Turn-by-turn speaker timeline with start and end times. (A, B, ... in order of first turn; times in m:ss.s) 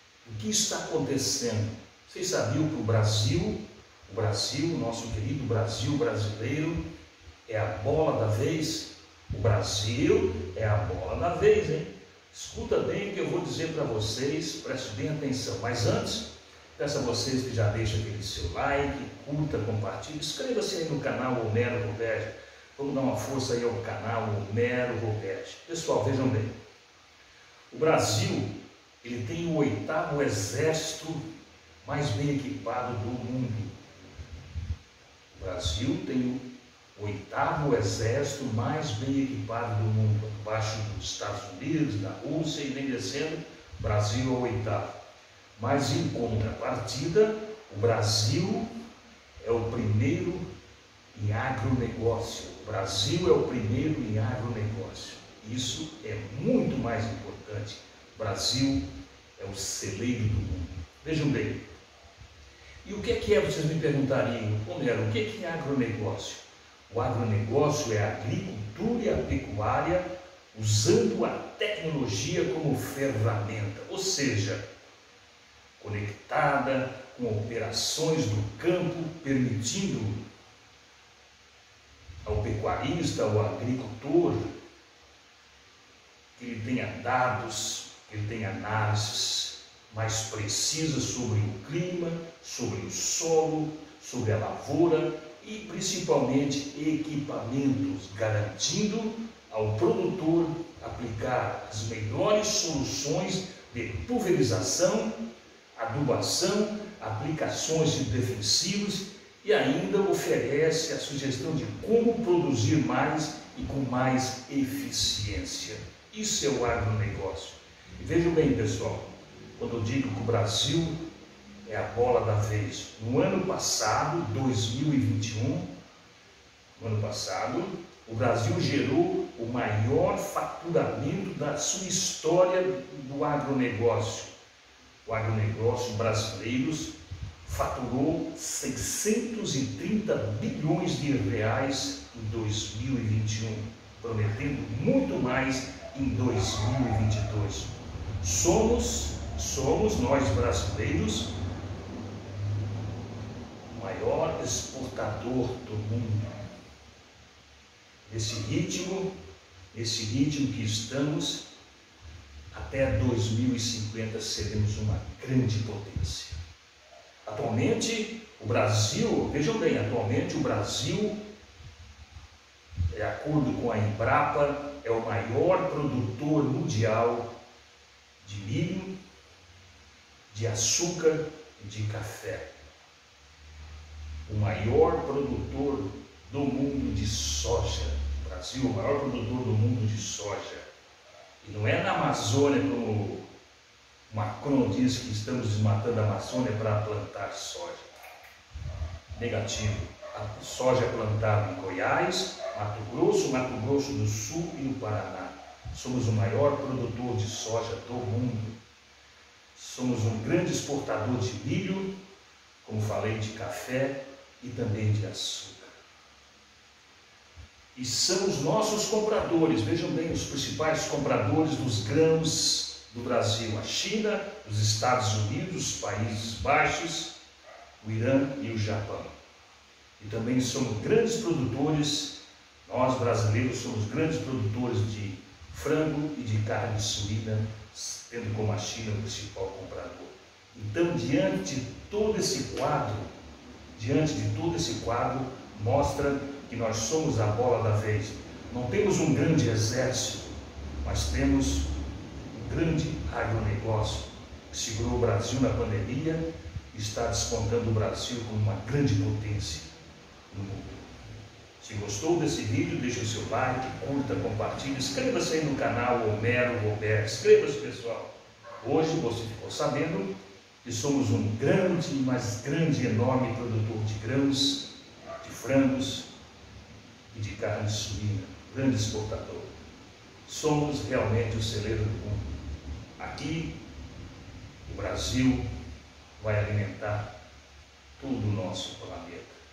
0:00.2-0:06.8 A
0:07.5-0:26.5 A
0:27.7-0:28.5 A
0:29.0-0:31.2 A
0:31.8-0:33.7 A
0:35.3-0:36.4 A
0:36.9-0:44.8 A
0:45.6-0:48.7 A
0:49.4-0:50.4 A
0:51.1-0:58.8 A
0:59.4-1:01.6 A
1:02.8-1:14.6 A
1:15.8-1:20.1 A
1:22.2-1:24.5 A
1:26.4-1:45.2 A
1:45.7-1:59.0 A
1:59.6-2:00.9 A
2:01.6-2:05.7 A
2:06.8-2:14.3 A
2:15.0-2:16.9 A
2:17.4-2:31.3 A
2:33.7-2:36.4 A
2:38.0-2:39.1 A
2:39.7-2:41.4 A
2:42.5-2:46.4 A
2:47.2-2:51.2 A
2:52.9-2:57.3 A
2:58.2-2:58.9 A
3:00.3-3:02.5 A
3:04.2-3:10.6 A
3:11.4-3:13.2 A
3:14.1-3:17.8 A
3:19.1-3:28.6 A
3:29.5-3:31.9 A
3:32.6-3:35.7 A
3:37.7-3:47.1 A
3:47.8-3:49.1 A
3:50.0-4:03.1 A
4:03.7-4:11.7 A
4:12.3-4:19.7 A
4:20.3-4:20.8 A
4:21.6-4:30.1 A
4:30.6-4:34.7 A
4:35.2-4:36.1 A
4:37.1-4:39.5 A
4:40.2-4:42.2 A
4:43.0-4:43.5 A
4:44.6-4:45.4 A
4:46.2-4:47.0 A
4:48.0-4:49.4 A